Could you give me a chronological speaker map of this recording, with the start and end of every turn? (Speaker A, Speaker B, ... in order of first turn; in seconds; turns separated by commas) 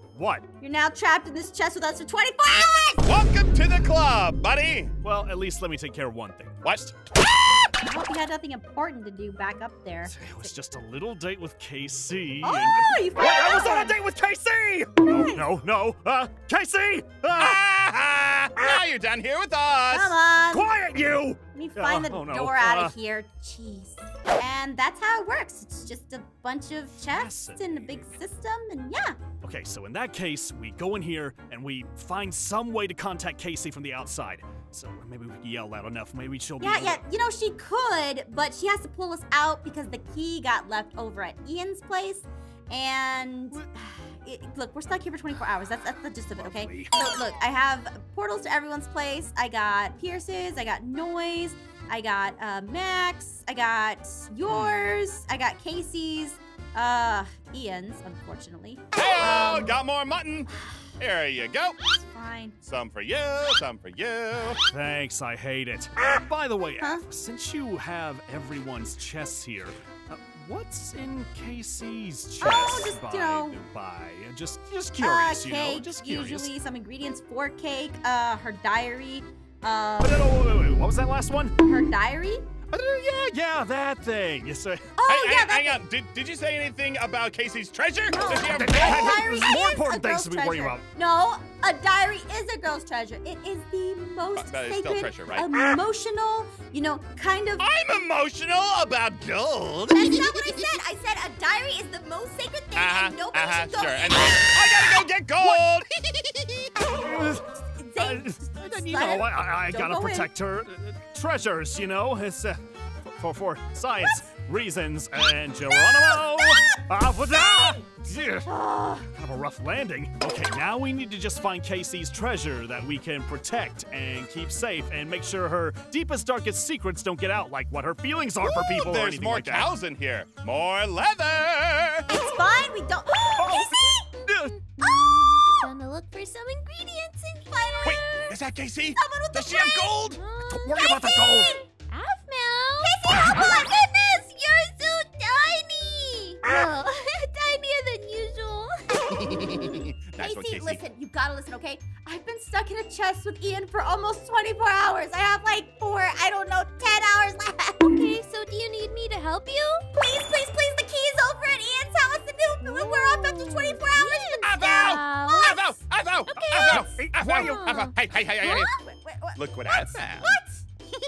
Speaker A: 0.1-0.4, Speaker B: 0.6-3.1, Speaker C: 3.0-4.9, Speaker A: 5.0-6.7, Speaker C: 6.6-7.6, Speaker B: 7.8-10.5, Speaker A: 10.1-17.6, Speaker B: 12.4-13.9, Speaker B: 15.1-15.4, Speaker C: 17.3-20.1, Speaker B: 19.9-20.7, Speaker A: 20.5-22.9, Speaker B: 21.5-29.2, Speaker A: 27.0-28.1, Speaker A: 29.4-37.0, Speaker B: 36.6-59.8, Speaker A: 46.4-46.9, Speaker C: 58.9-61.8, Speaker B: 61.9-62.5, Speaker C: 62.6-64.6, Speaker A: 64.6-76.5, Speaker B: 66.8-67.0, Speaker B: 72.4-73.6, Speaker B: 75.0-80.2, Speaker A: 80.0-81.5, Speaker B: 81.6-82.4, Speaker A: 82.7-84.9, Speaker B: 85.0-85.8, Speaker C: 85.0-89.2, Speaker B: 88.1-97.6, Speaker A: 88.4-90.8, Speaker C: 94.4-95.5, Speaker C: 97.6-100.7, Speaker B: 99.9-105.6, Speaker C: 102.7-106.7, Speaker A: 107.0-107.4, Speaker B: 107.1-110.3, Speaker A: 108.0-118.5, Speaker B: 116.0-116.8, Speaker B: 117.4-117.8, Speaker B: 118.5-119.1, Speaker A: 119.0-129.7, Speaker C: 128.6-132.1, Speaker B: 132.1-134.1, Speaker A: 133.4-133.7, Speaker A: 134.3-134.6, Speaker D: 134.8-138.4, Speaker B: 134.8-135.3, Speaker B: 137.7-138.0, Speaker C: 137.8-141.5, Speaker B: 139.0-139.9, Speaker D: 140.1-149.6, Speaker B: 140.7-141.6, Speaker B: 142.8-143.9, Speaker C: 149.2-150.8, Speaker B: 150.2-158.0, Speaker D: 157.8-159.8, Speaker B: 159.9-165.7, Speaker D: 162.6-165.7, Speaker C: 164.4-168.7, Speaker D: 166.3-168.6, Speaker B: 166.4-167.0, Speaker A: 166.7-167.4, Speaker B: 168.4-170.6, Speaker C: 169.3-170.4